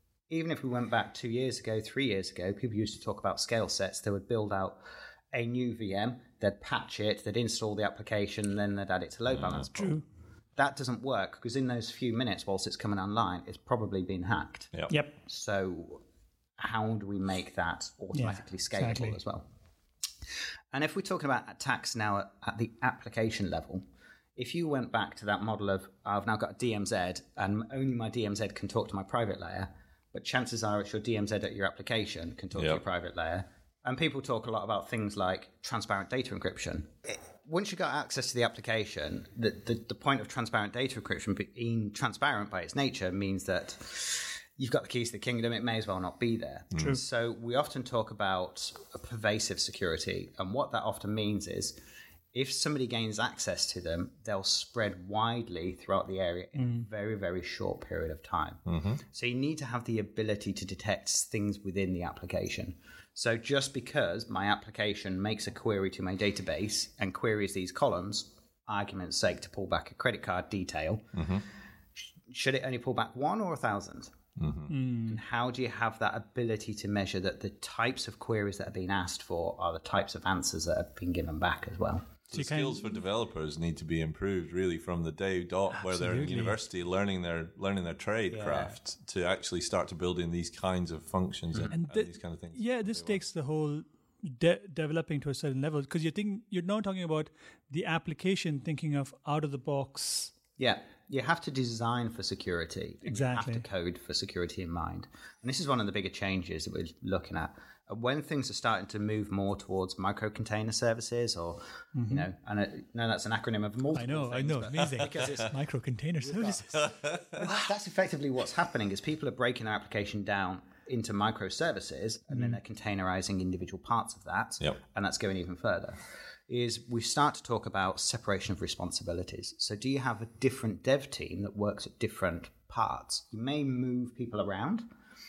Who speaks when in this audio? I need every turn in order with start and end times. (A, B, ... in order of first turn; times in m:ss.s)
0:00.3-0:04.8 A
0:05.3-0:10.0 A
0:09.3-0:09.7 B
0:09.7-0:10.0 C
0:10.6-0:16.0 A
0:14.9-0:15.2 C
0:16.6-0:19.5 A
0:18.1-0:19.2 C
0:20.7-0:23.8 A
0:24.4-0:51.8 A
0:32.5-0:32.8 B
0:52.3-1:11.2 A
0:56.6-0:56.8 C
0:58.7-0:59.0 B
1:11.1-1:11.4 B
1:12.3-1:14.1 A
1:14.4-1:14.7 B
1:14.7-1:15.2 C
1:15.0-1:22.1 A
1:22.3-1:33.2 B
1:22.3-1:22.8 C
1:25.8-1:26.5 C
1:28.3-1:28.8 A
1:31.7-1:40.3 C
1:40.6-1:55.5 A
1:43.0-1:43.6 C
1:51.9-1:52.3 C
1:53.9-1:56.8 C
1:55.0-1:55.4 B
1:56.2-1:56.8 A
1:56.7-1:57.4 B
1:57.3-2:14.9 A